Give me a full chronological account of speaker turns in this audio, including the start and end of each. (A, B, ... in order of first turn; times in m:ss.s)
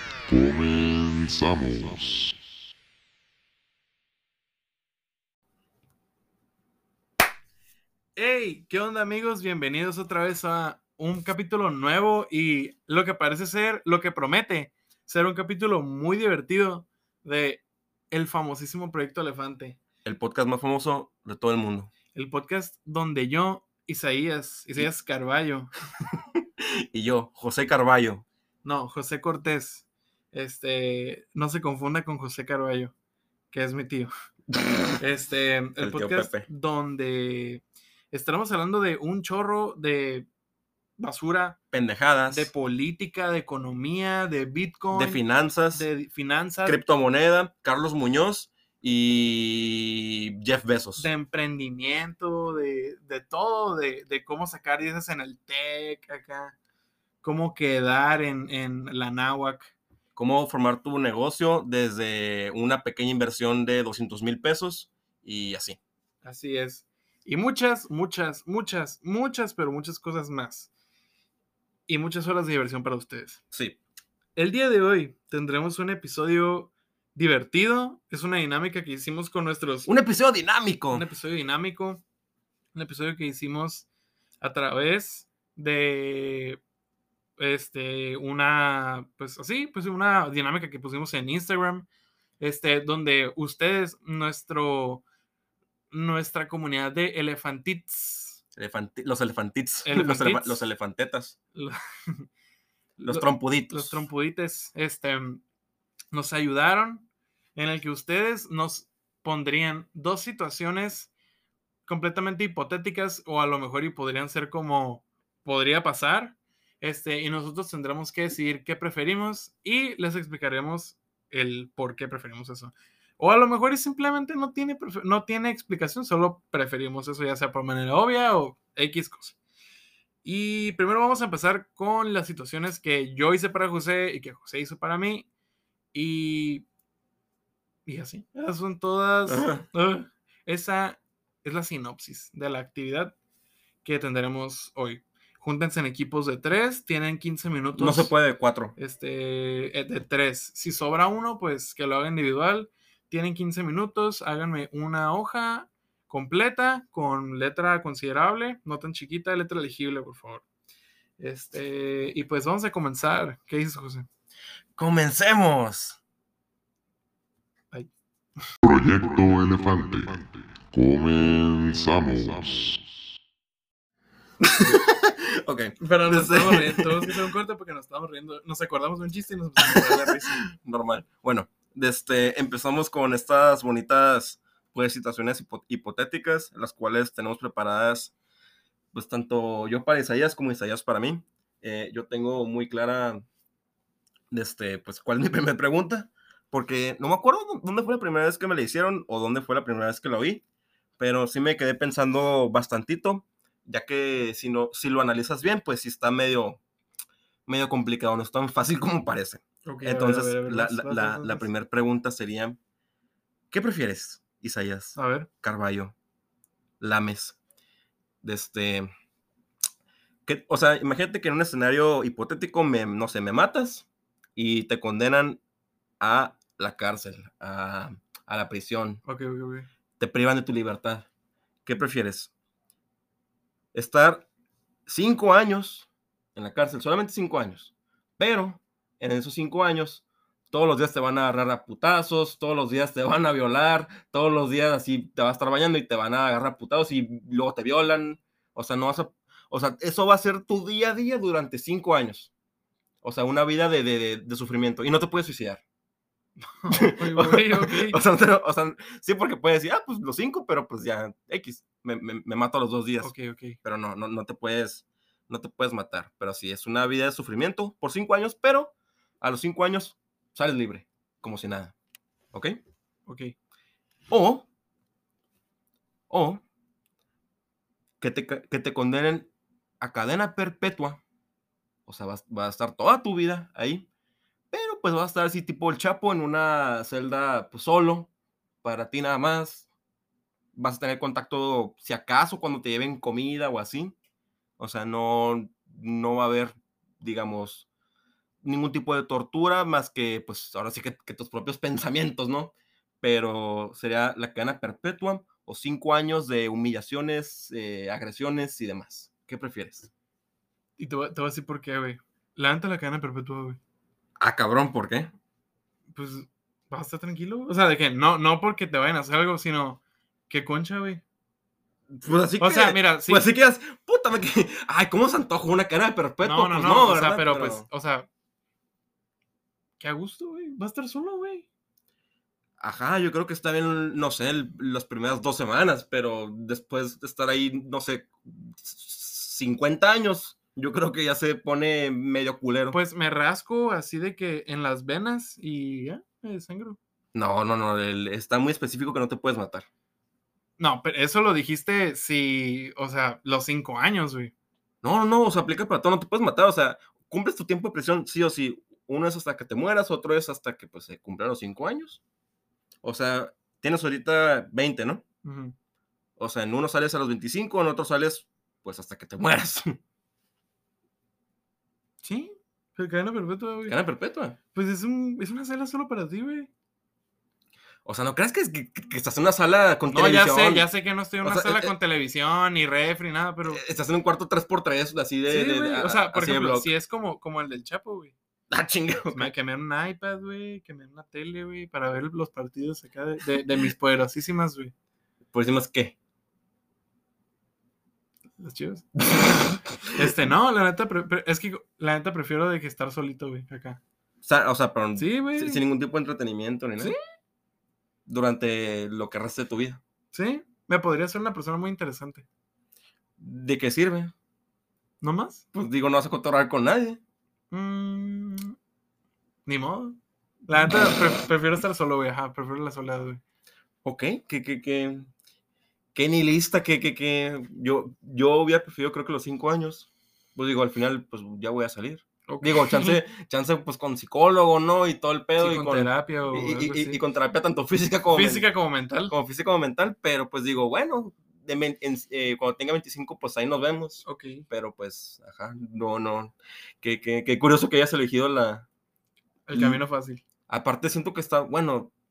0:00.3-0:02.3 A
0:08.2-0:19.8 B
0:20.0-0:21.9 C
0:22.1-0:25.7 B
0:26.4-0:28.2 C
0:28.6-0:32.9 B
0:33.5-0:34.1 B
0:35.0-0:40.3 B
0:35.8-0:36.5 C
0:41.0-0:41.6 B
0:41.7-0:42.5 C
0:42.3-0:46.8 B
0:44.9-0:45.9 C
0:46.6-0:51.1 C
0:51.0-0:56.5 B
0:57.2-0:59.7 B
1:00.2-1:05.8 C
1:06.2-1:10.7 B
1:11.9-1:13.4 B
1:13.5-1:13.8 C
1:14.4-1:19.9 B
1:19.8-1:21.0 C
1:20.9-1:22.0 B
1:22.7-1:23.8 B
1:24.4-1:26.6 B
1:27.4-1:31.8 B
1:32.4-1:35.0 B
1:35.9-1:38.4 B
1:38.5-1:41.4 C
1:39.8-1:40.7 B
1:41.5-1:42.3 B
1:43.0-1:44.0 C
1:43.1-1:45.4 B
1:46.1-1:51.1 B
1:51.9-2:09.4 B
2:10.2-2:15.3 B
2:15.9-2:16.6 B
2:17.8-2:23.1 B
2:19.2-2:19.6 C
2:23.8-2:28.1 B
2:27.7-2:28.7 C
2:28.8-2:40.4 B
2:41.2-2:44.1 B
2:44.8-2:46.0 C
2:48.6-2:52.8 A
2:54.4-2:57.1 C
2:55.8-3:00.4 B
2:59.6-3:08.1 C
3:08.9-3:13.2 C
3:14.3-3:20.4 C
3:21.0-3:26.6 C
3:27.5-3:32.6 C
3:29.6-3:31.5 B
3:33.5-3:35.9 C
3:35.0-3:35.3 B
3:36.8-3:37.4 C
3:38.2-3:38.9 C
3:40.2-3:45.4 C
3:46.0-3:49.0 C
3:49.0-3:49.7 B
3:50.0-3:51.1 C
3:51.6-3:52.3 C
3:53.7-3:54.2 C
3:54.9-4:12.3 C
4:13.0-4:15.6 C
4:16.5-4:18.0 B
4:16.7-4:31.7 C
4:23.0-4:23.6 B
4:32.3-4:32.6 C
4:33.1-4:33.3 B
4:34.1-4:34.4 C
4:36.1-4:36.4 C
4:38.0-4:39.3 C
4:39.8-4:41.0 C
4:41.8-4:43.9 C
4:44.5-4:48.1 C
4:48.6-4:49.7 C
4:50.5-4:53.9 C
4:54.6-4:57.7 C
4:58.4-5:09.9 C
5:10.8-5:13.6 B
5:14.2-5:15.1 C
5:15.9-5:21.0 B
5:21.9-5:27.6 C
5:22.4-5:23.3 B
5:26.2-5:28.1 B
5:29.8-5:31.4 B
5:32.6-5:42.8 C
5:42.7-5:46.8 B
5:47.1-5:49.6 C
5:50.6-5:54.3 B
5:54.8-6:02.0 C
6:02.8-6:05.0 C
6:05.2-6:05.5 B
6:06.2-6:09.8 C
6:12.0-6:13.8 B
6:13.7-6:14.4 C
6:14.5-6:16.5 B
6:17.8-6:20.7 C
6:19.9-6:23.6 B
6:21.2-6:21.7 C
6:23.4-6:26.7 C
6:25.3-6:28.1 B
6:28.5-6:29.3 C
6:29.1-6:34.7 B
6:35.3-6:35.9 C
6:38.4-6:43.8 B
6:39.1-6:39.6 C
6:44.2-6:47.0 C
6:45.0-6:45.6 B
6:48.0-6:49.8 C
6:50.1-6:52.2 B
6:53.2-6:54.1 C
6:55.0-6:55.4 B
6:55.5-6:57.0 C
6:57.5-6:58.6 B
6:59.4-7:03.2 B
7:03.8-7:05.1 C
7:05.9-7:18.4 C
7:12.3-7:13.0 B
7:15.4-7:17.0 B
7:18.1-7:19.1 B
7:19.1-7:28.6 C
7:24.0-7:24.4 B
7:29.5-7:30.2 B
7:29.5-7:29.8 C
7:30.5-7:31.9 C